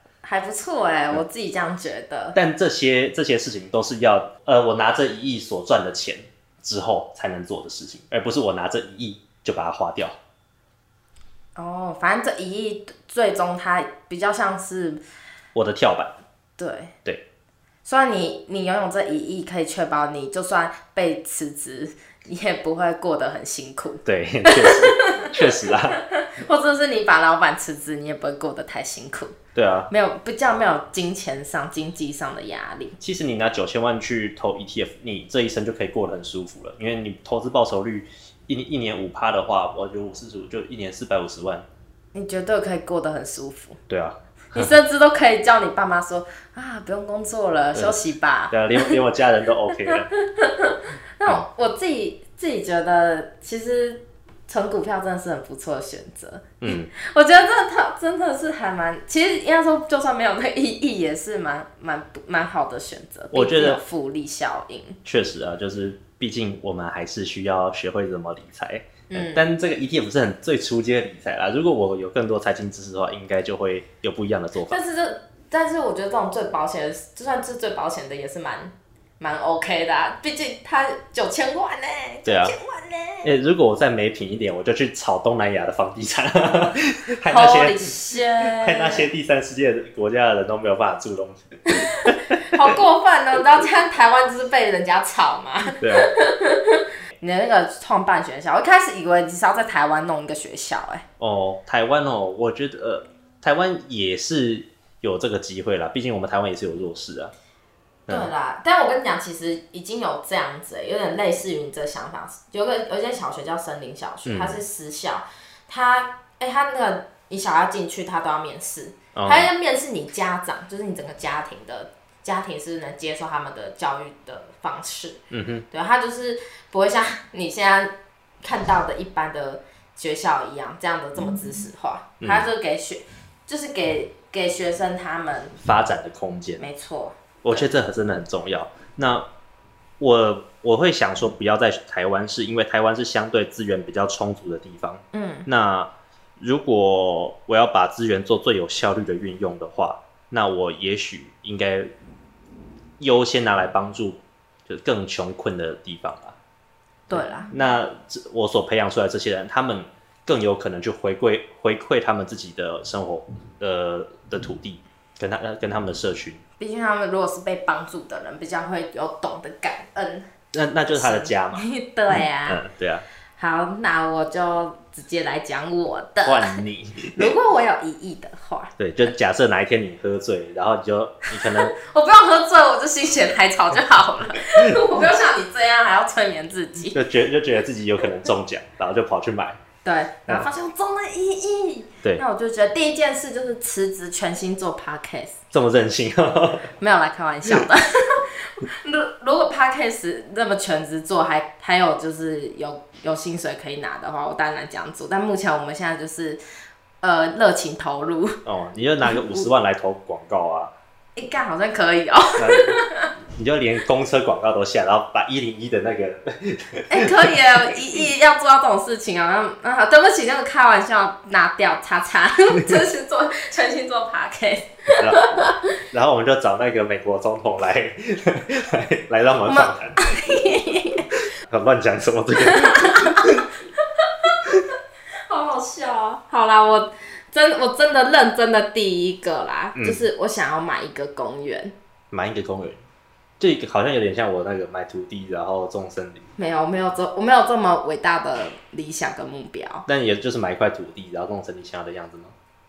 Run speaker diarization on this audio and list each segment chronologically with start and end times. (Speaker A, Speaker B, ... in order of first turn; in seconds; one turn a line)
Speaker A: 0.2-2.4
Speaker B: 2.3-10.2
Speaker A: 11.6-15.0
Speaker B: 15.5-16.2
Speaker A: 16.6-16.9
Speaker A: 17.8-29.4
Speaker B: 24.0-26.0
Speaker B: 29.5-29.9
Speaker A: 29.9-33.0
Speaker B: 33.0-41.6
Speaker A: 42.1-43.8
Speaker B: 43.9-44.7
Speaker A: 44.5-49.0
Speaker B: 48.5-50.1
Speaker A: 49.9-65.0
Speaker B: 56.6-56.9
Speaker B: 63.3-63.8
Speaker B: 65.0-74.8
Speaker A: 69.1-69.4
Speaker A: 74.7-83.3
Speaker B: 82.2-82.5
Speaker B: 83.2-92.7
Speaker A: 87.3-89.1
Speaker A: 91.7-101.0
Speaker B: 95.8-96.1
Speaker B: 101.2-107.3
Speaker A: 108.1-135.6
Speaker B: 114.2-114.6
Speaker B: 119.1-119.5
Speaker B: 125.3-125.7
Speaker B: 132.2-132.5
Speaker B: 135.6-136.6
Speaker A: 136.6-137.7
Speaker B: 137.4-139.3
Speaker B: 140.0-151.9
Speaker A: 145.1-145.5
Speaker B: 153.0-156.4
Speaker A: 157.1-157.5
Speaker B: 157.1-166.4
Speaker A: 166.6-170.3
Speaker B: 170.5-171.7
Speaker A: 170.9-172.6
Speaker B: 172.4-173.0
Speaker A: 173.4-176.6
Speaker B: 176.2-177.3
Speaker A: 177.1-178.7
Speaker B: 178.8-181.7
Speaker A: 181.3-187.0
Speaker B: 184.5-184.8
Speaker B: 186.9-189.6
Speaker A: 189.8-195.4
Speaker B: 195.5-196.7
Speaker A: 196.8-206.4
Speaker A: 207.0-208.4
Speaker B: 208.4-210.7
Speaker A: 209.0-209.4
Speaker A: 211.2-213.1
Speaker B: 212.4-212.8
Speaker B: 213.3-217.8
Speaker A: 216.9-225.6
Speaker B: 224.9-230.1
Speaker A: 229.4-231.1
Speaker B: 231.2-233.5
Speaker A: 232.4-234.4
Speaker A: 235.3-241.8
Speaker B: 239.7-240.1
Speaker B: 242.1-242.8
Speaker B: 243.4-246.2
Speaker A: 246.4-249.8
Speaker B: 249.9-252.3